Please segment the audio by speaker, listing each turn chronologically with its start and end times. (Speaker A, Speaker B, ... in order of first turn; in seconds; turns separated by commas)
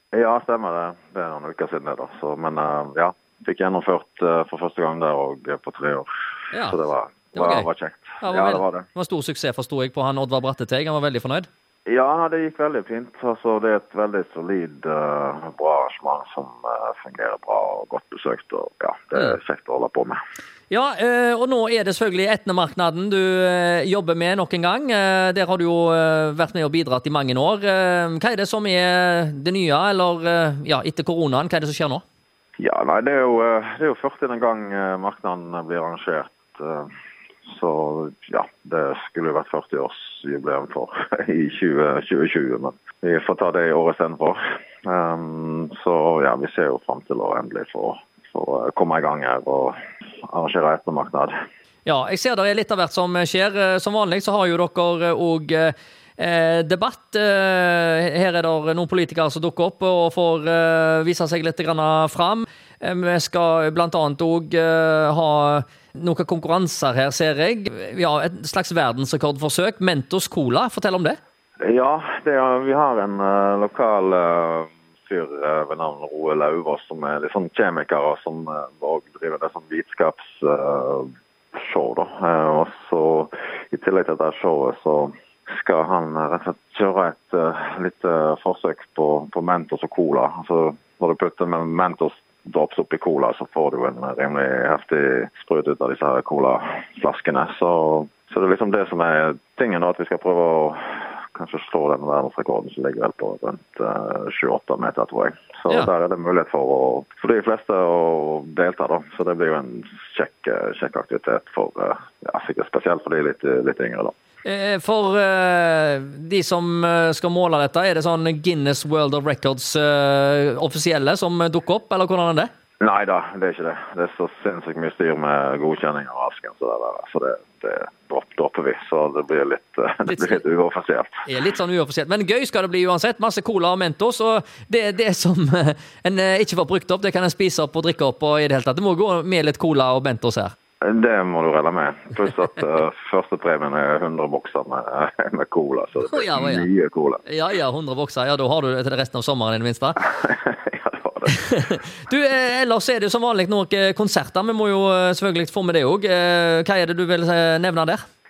Speaker A: 0.1-6.1, Speaker B: 6.5-6.8, Speaker A: 6.6-8.9, Speaker B: 7.3-7.7, Speaker B: 8.2-11.5, Speaker A: 11.8-20.2, Speaker B: 20.7-32.0, Speaker A: 32.6-36.9, Speaker A: 37.5-49.7, Speaker A: 50.3-51.3, Speaker B: 51.9-71.2, Speaker A: 71.6-114.1, Speaker B: 114.4-122.5, Speaker A: 122.8-131.3, Speaker B: 130.1-130.4, Speaker B: 131.2-140.5, Speaker A: 140.8-147.2, Speaker B: 146.1-146.7, Speaker B: 147.3-150.0, Speaker A: 150.0-151.4, Speaker B: 151.3-158.0